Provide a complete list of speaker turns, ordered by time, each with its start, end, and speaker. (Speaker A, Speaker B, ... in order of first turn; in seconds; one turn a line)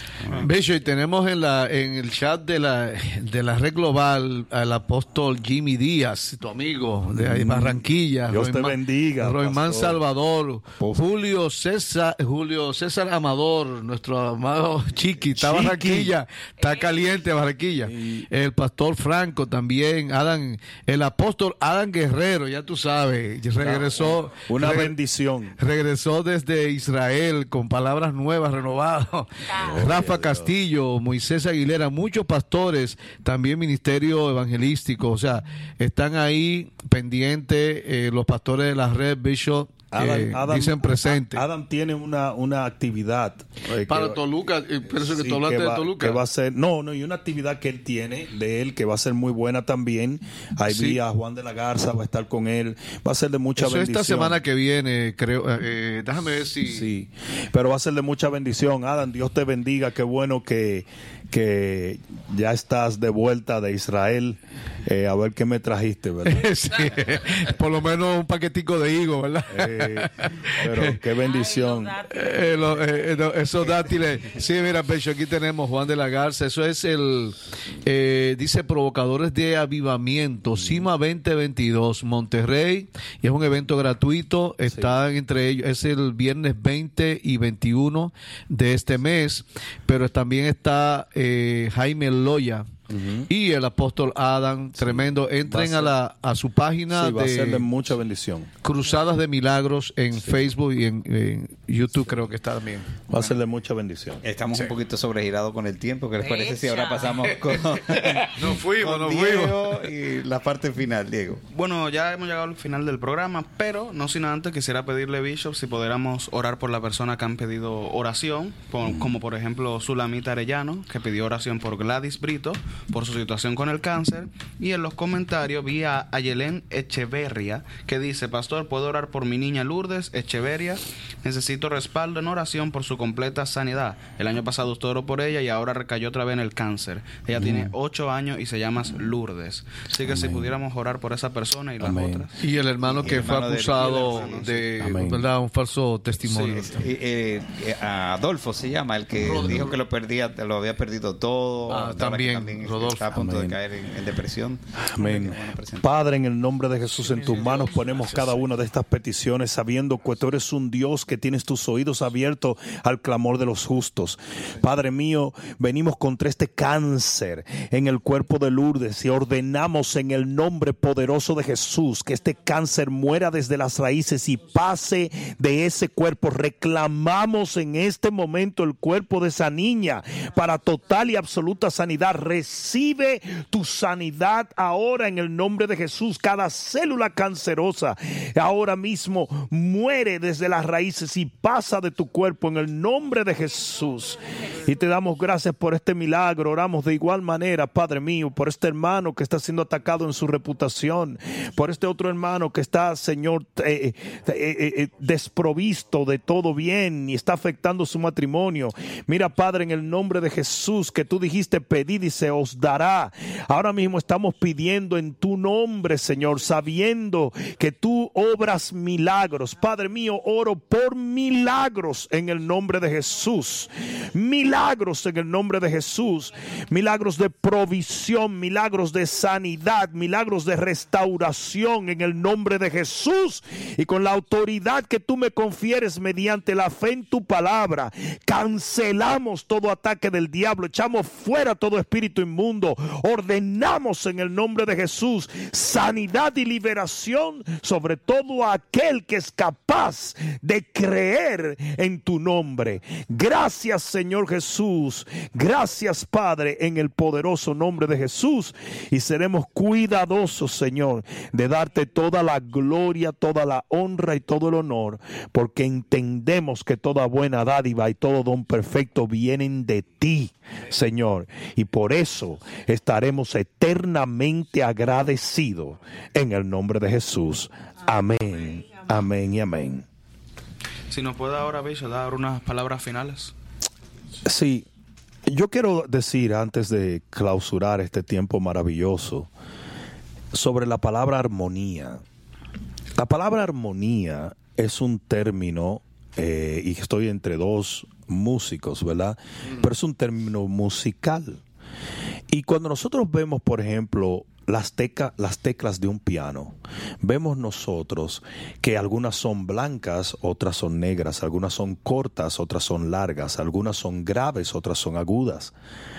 Speaker A: 0.3-25.0
Speaker B: 7.2-10.0
Speaker B: 15.3-16.1
Speaker C: 16.6-17.3
Speaker B: 17.9-18.3
Speaker B: 23.6-25.6
Speaker A: 25.6-41.4
Speaker C: 29.4-29.9
Speaker B: 29.6-30.5
Speaker B: 39.9-44.2
Speaker A: 43.9-46.2
Speaker B: 44.9-54.4
Speaker A: 50.7-51.0
Speaker A: 53.6-56.9
Speaker B: 56.7-67.0
Speaker A: 66.2-71.0
Speaker B: 69.5-71.9
Speaker C: 71.2-72.8
Speaker A: 72.1-92.7
Speaker B: 80.6-80.9
Speaker B: 84.7-84.9
Speaker B: 92.9-93.3
Speaker A: 93.3-97.7
Speaker B: 94.8-95.9
Speaker B: 96.9-98.5
Speaker A: 98.6-102.9
Speaker B: 103.1-104.2
Speaker D: 104.2-111.4
Speaker C: 106.2-107.4
Speaker A: 107.5-109.9
Speaker E: 111.5-142.4
Speaker B: 137.3-137.7
Speaker B: 140.0-140.5
Speaker B: 141.8-142.3
Speaker A: 142.4-146.8
Speaker D: 142.8-144.6
Speaker E: 143.0-144.7
Speaker B: 144.8-145.2
Speaker B: 146.3-146.7
Speaker D: 146.3-155.9
Speaker A: 149.2-149.7
Speaker A: 151.7-153.2
Speaker B: 153.1-153.6
Speaker B: 154.9-279.9
Speaker A: 157.2-158.4
Speaker E: 280.9-283.4
Speaker B: 284.2-284.7
Speaker B: 285.3-289.3
Speaker B: 290.3-292.0
Speaker B: 293.0-301.4
Speaker B: 302.3-315.5